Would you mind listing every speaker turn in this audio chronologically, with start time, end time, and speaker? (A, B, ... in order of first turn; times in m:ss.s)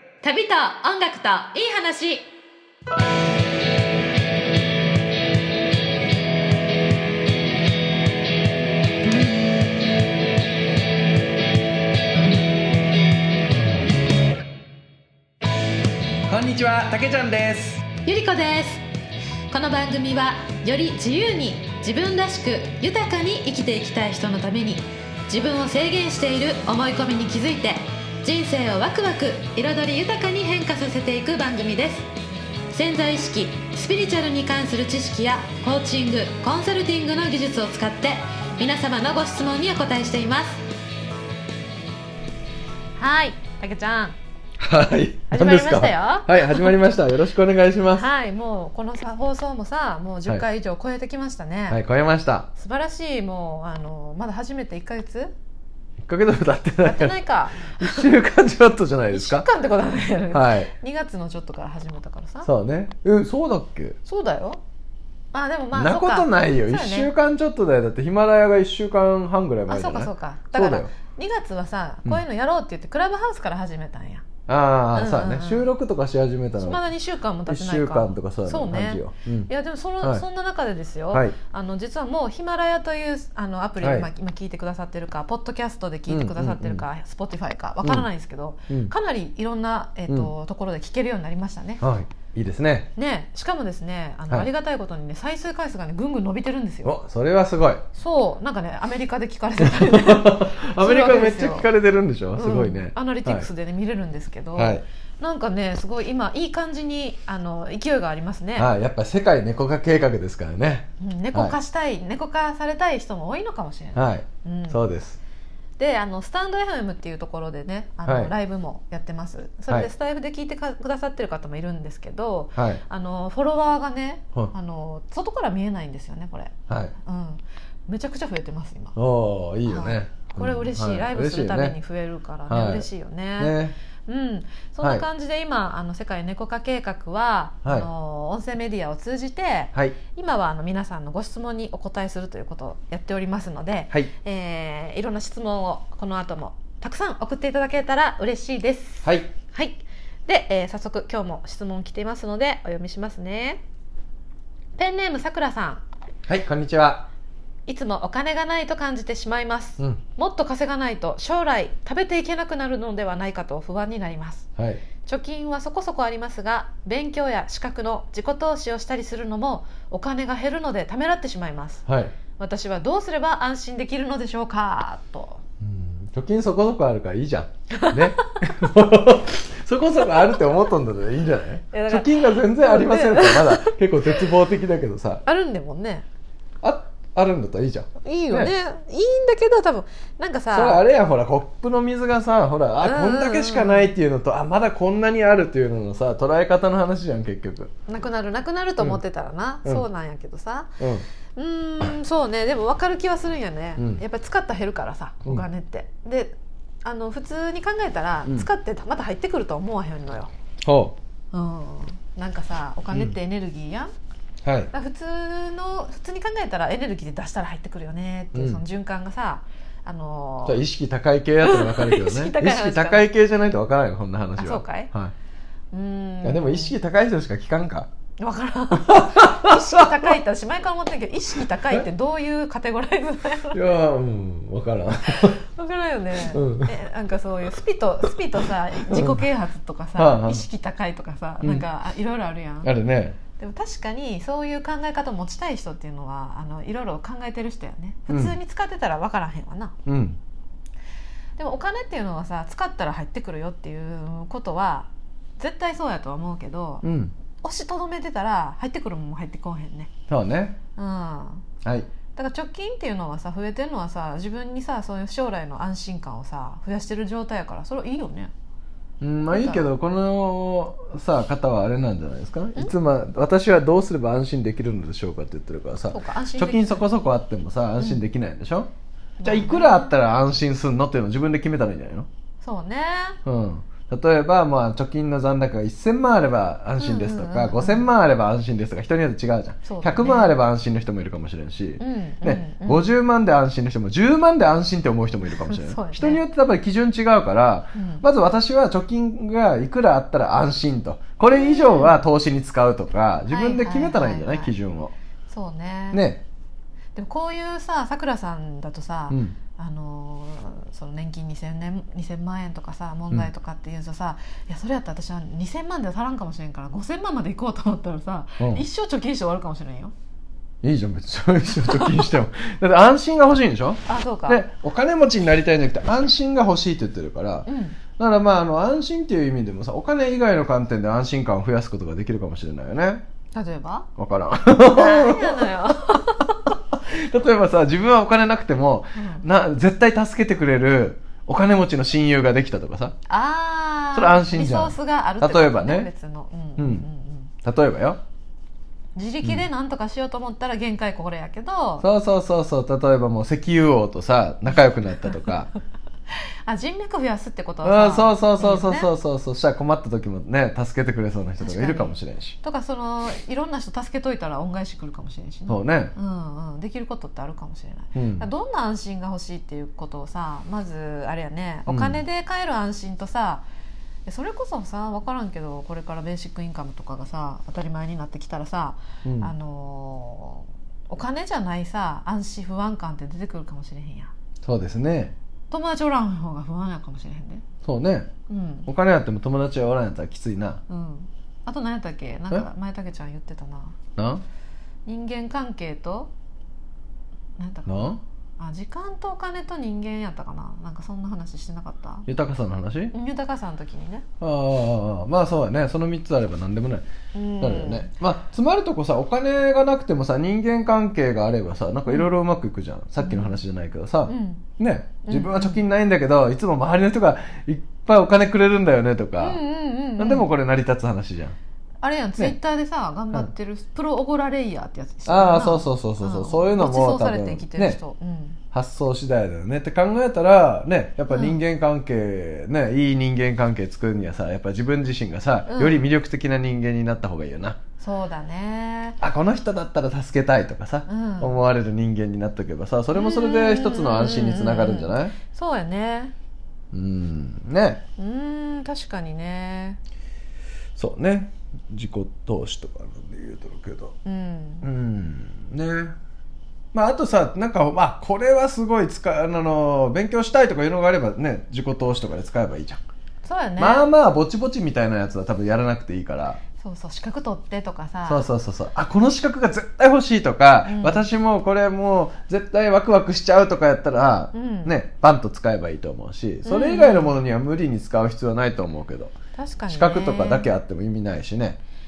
0:00.2-0:02.3 A
0:16.3-0:17.8 B
0:18.0-0:18.8 A
0:19.5-0:32.1 A
0:32.7-0:40.6 A
0:43.0-0:44.2 A
0:44.6-0:48.1 B
0:45.3-0:46.9 A
0:47.9-0:51.8 A
0:51.7-0:52.5 B
0:52.6-0:55.3 A
0:56.0-0:59.5 B
0:56.8-0:58.1 A
0:59.1-1:02.5 A
1:00.3-1:00.7 B
1:02.4-1:04.0 B
1:04.0-1:04.6 A
1:05.3-1:07.1 A
1:05.7-1:10.9 B
1:09.7-1:14.3 A
1:14.5-1:16.8 B
1:14.9-1:15.7 A
1:16.6-1:31.9 A
1:17.5-1:19.5 B
1:23.8-1:24.1 B
1:26.1-1:26.8 B
1:27.8-1:28.1 B
1:31.8-1:32.9 B
1:33.0-1:37.0 A
1:36.8-1:37.8 B
1:37.9-1:41.7 A
1:39.6-1:43.5 B
1:42.4-1:48.7 A
1:44.6-1:44.8 B
1:48.6-1:51.6 B
1:51.0-1:54.8 A
1:54.0-1:55.2 B
1:55.8-2:09.0 A
1:58.0-1:58.3 B
2:02.6-2:02.8 B
2:06.7-2:06.9 B
2:09.0-2:11.8 B
2:09.7-2:33.6 A
2:12.5-2:13.8 B
2:29.0-2:29.3 B
2:34.8-2:35.8 A
2:36.3-2:37.1 B
2:37.7-2:44.5 A
2:44.6-2:44.8 B
2:45.0-2:51.8 A
2:51.9-2:52.1 B
2:52.4-2:55.4 A
2:55.6-3:05.2 B
2:57.8-2:58.1 A
3:01.7-3:03.8 A
3:05.2-3:06.1 A
3:06.6-3:08.5 B
3:08.0-3:10.9 A
3:10.5-3:17.7 B
3:12.8-3:13.9 A
3:17.9-3:20.8 A
3:20.8-3:21.0 B
3:21.4-3:30.3 A
3:23.8-3:24.0 B
3:30.6-3:31.0 B
3:31.3-3:33.9 A
3:34.4-3:34.7 B
3:34.7-3:40.6 A
3:38.3-3:38.6 B
3:40.4-3:45.1 B
3:41.4-3:43.1 A
3:44.4-3:44.9 A
3:45.7-3:46.8 A
3:46.2-3:47.9 B
3:48.2-3:53.6 A
3:48.8-3:50.1 B
3:51.4-3:51.9 B
3:53.5-3:55.4 B
3:55.2-4:02.7 A
3:56.2-3:56.8 B
3:58.8-3:59.2 B
4:00.0-4:00.4 B
4:02.6-4:03.2 B
4:03.4-4:09.8 A
4:08.1-4:08.4 B
4:09.9-4:10.2 B
4:11.4-4:16.8 A
4:16.8-4:17.2 B
4:17.4-4:19.9 A
4:20.1-4:20.6 B
4:20.8-4:21.4 A
4:22.2-4:28.3 A
4:29.0-4:38.7 B
4:29.3-4:29.7 A
4:35.9-4:36.9 A
4:39.2-4:39.9 A
4:39.2-4:42.1 B
4:42.4-4:43.2 A
4:43.2-5:04.9 B
4:46.8-4:47.9 A
4:49.6-4:50.4 A
4:51.8-4:52.9 A
4:55.4-4:56.2 A
4:57.7-4:58.0 A
5:01.3-5:02.0 A
5:03.3-5:04.5 A
5:05.3-5:06.0 A
5:05.9-5:06.2 B
5:07.0-5:19.9 A
5:09.1-5:09.4 B
5:20.6-5:33.0 B
5:21.7-5:22.0 A
5:23.9-5:24.4 A
5:27.5-5:27.8 A
5:33.3-5:33.9 A
5:34.0-5:35.8 B
5:34.6-5:36.4 A
5:36.7-5:42.9 B
5:39.0-5:39.2 A
5:43.1-5:47.3 A
5:43.9-5:45.9 B
5:46.6-5:46.8 B
5:47.4-5:48.0 B
5:49.0-5:51.9 A
5:51.8-5:55.5 B
5:56.5-5:58.9 A
5:57.6-6:02.4 B
6:01.4-6:13.4 A
6:05.5-6:05.9 B
6:08.0-6:08.3 B
6:11.7-6:12.0 B
6:14.1-6:24.1 A
6:19.0-6:19.3 B
6:24.4-6:25.2 B
6:25.5-6:27.4 A
6:27.6-6:28.1 B
6:28.3-6:28.7 A
6:28.7-6:30.6 B
6:30.7-6:33.8 A
6:34.0-6:34.2 B
6:34.9-6:36.1 A
6:37.4-6:42.1 A
6:37.7-6:38.0 B
6:42.1-6:42.9 B
6:42.9-6:44.0 A
6:44.2-6:46.9 B
6:47.1-6:47.9 A
6:47.4-6:59.4 B
6:51.9-6:52.2 A
6:53.0-6:53.4 A
6:54.1-6:54.5 A
6:55.0-6:55.6 A
6:59.2-7:00.3 A
7:00.0-7:01.4 B
7:01.8-7:08.4 A
7:05.1-7:07.8 B
7:08.5-7:17.6 B
7:11.1-7:11.4 A
7:15.5-7:15.9 A
7:17.8-7:19.0 A
7:19.0-7:25.2 B
7:20.9-7:21.4 A
7:22.9-7:26.1 A
7:26.7-7:27.8 B
7:28.0-7:29.8 A
7:30.8-7:34.0 B
7:34.0-7:34.7 A
7:34.6-7:35.9 B
7:36.7-7:42.8 B
7:43.2-7:43.9 A
7:43.6-7:46.4 B
7:46.6-7:48.3 A
7:48.1-7:59.1 B
7:50.6-7:51.1 A
7:54.3-7:54.8 A
7:56.4-7:57.2 A
7:59.3-8:00.5 A
7:59.7-8:01.6 B